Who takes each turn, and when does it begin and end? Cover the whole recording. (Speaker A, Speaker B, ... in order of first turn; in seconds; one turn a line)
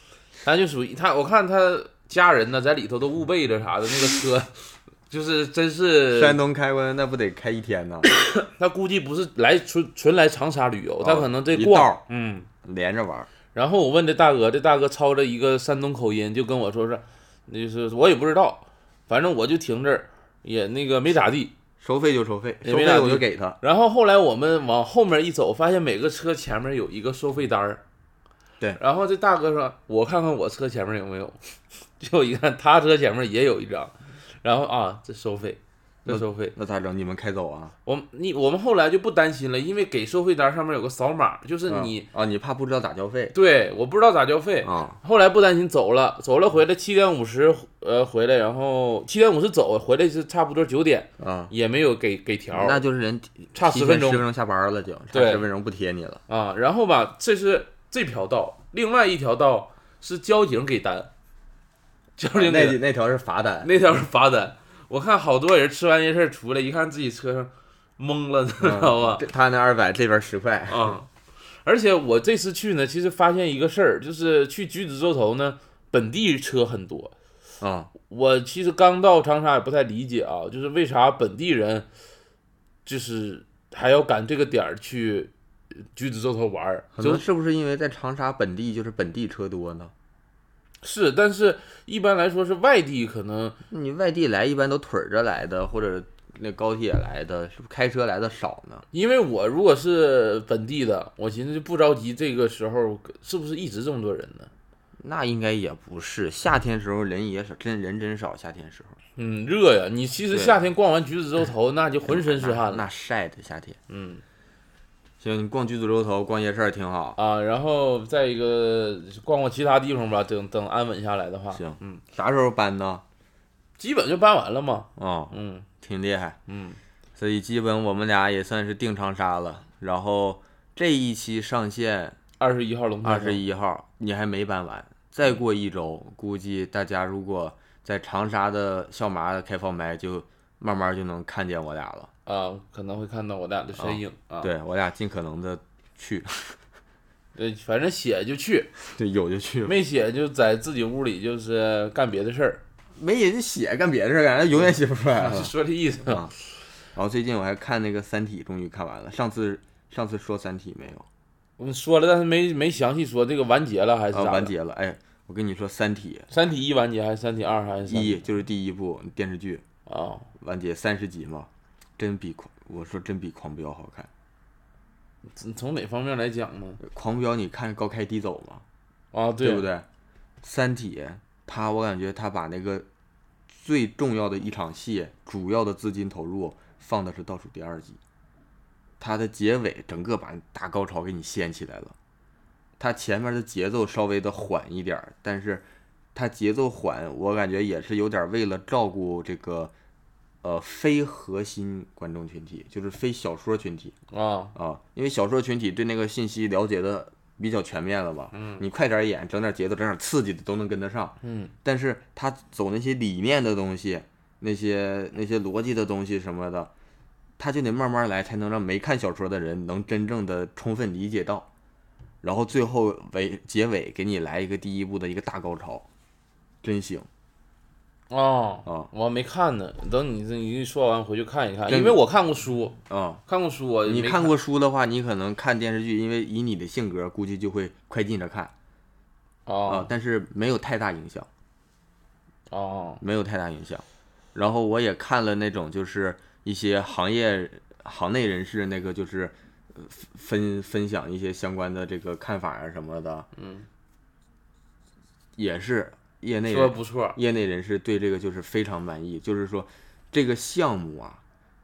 Speaker A: 0.4-6.4
Speaker B: 6.1-8.1
Speaker A: 8.2-12.5
Speaker B: 11.0-12.0
Speaker B: 12.6-13.3
Speaker A: 13.5-21.5
Speaker B: 21.8-23.6
Speaker A: 22.6-27.8
Speaker A: 28.8-31.4
Speaker A: 32.0-36.5
Speaker B: 36.0-37.7
Speaker A: 37.9-42.0
Speaker B: 41.7-43.3
Speaker A: 43.3-52.8
Speaker B: 44.6-45.0
Speaker B: 51.2-51.5
Speaker B: 52.5-56.2
Speaker A: 53.5-54.2
Speaker A: 55.1-55.4
Speaker A: 56.3-61.1
Speaker A: 62.2-62.8
Speaker B: 62.3-63.7
Speaker A: 63.6-69.2
Speaker B: 68.6-70.9
Speaker A: 70.7-71.1
Speaker A: 71.6-77.1
Speaker B: 77.6-77.9
Speaker A: 78.1-81.9
Speaker A: 82.8-85.3
Speaker A: 85.9-87.2
Speaker B: 86.9-89.9
Speaker A: 90.8-93.6
Speaker B: 93.7-98.8
Speaker A: 98.9-104.5
Speaker B: 105.0-109.0
Speaker A: 109.2-112.8
Speaker B: 110.3-110.6
Speaker B: 112.1-113.8
Speaker A: 113.9-114.2
Speaker B: 115.2-117.2
Speaker A: 117.2-122.0
Speaker B: 121.5-123.0
Speaker A: 123.8-125.7
Speaker B: 125.0-126.4
Speaker A: 126.5-126.8
Speaker B: 127.2-132.2
Speaker A: 132.4-133.4
Speaker B: 133.0-142.1
Speaker A: 142.2-144.5
Speaker B: 143.8-146.6
Speaker A: 147.3-148.7
Speaker B: 148.8-149.7
Speaker A: 149.6-152.6
Speaker B: 153.0-155.5
Speaker A: 155.2-156.3
Speaker B: 156.1-156.3
Speaker B: 156.9-161.1
Speaker A: 161.6-164.5
Speaker B: 164.1-166.3
Speaker A: 166.3-168.2
Speaker B: 167.9-169.6
Speaker A: 169.9-170.3
Speaker B: 170.4-174.1
Speaker A: 175.3-176.8
Speaker B: 176.8-178.6
Speaker A: 179.1-179.7
Speaker B: 179.4-179.8
Speaker B: 180.4-182.8
Speaker B: 183.5-188.0
Speaker B: 189.0-191.9
Speaker B: 192.8-199.7
Speaker B: 200.4-203.9
Speaker A: 204.1-204.5
Speaker B: 204.5-216.7
Speaker A: 208.3-208.6
Speaker A: 211.2-211.5
Speaker B: 217.4-221.5
Speaker B: 222.2-225.9
Speaker B: 226.6-227.1
Speaker A: 228.1-234.3
Speaker B: 231.7-232.0
Speaker B: 232.9-233.2
Speaker B: 233.8-238.5
Speaker A: 239.4-239.9
Speaker B: 239.7-241.3
Speaker A: 242.5-243.0
Speaker B: 243.0-243.8
Speaker B: 244.3-253.3
Speaker A: 253.3-253.7
Speaker B: 255.3-261.2
Speaker A: 256.5-257.2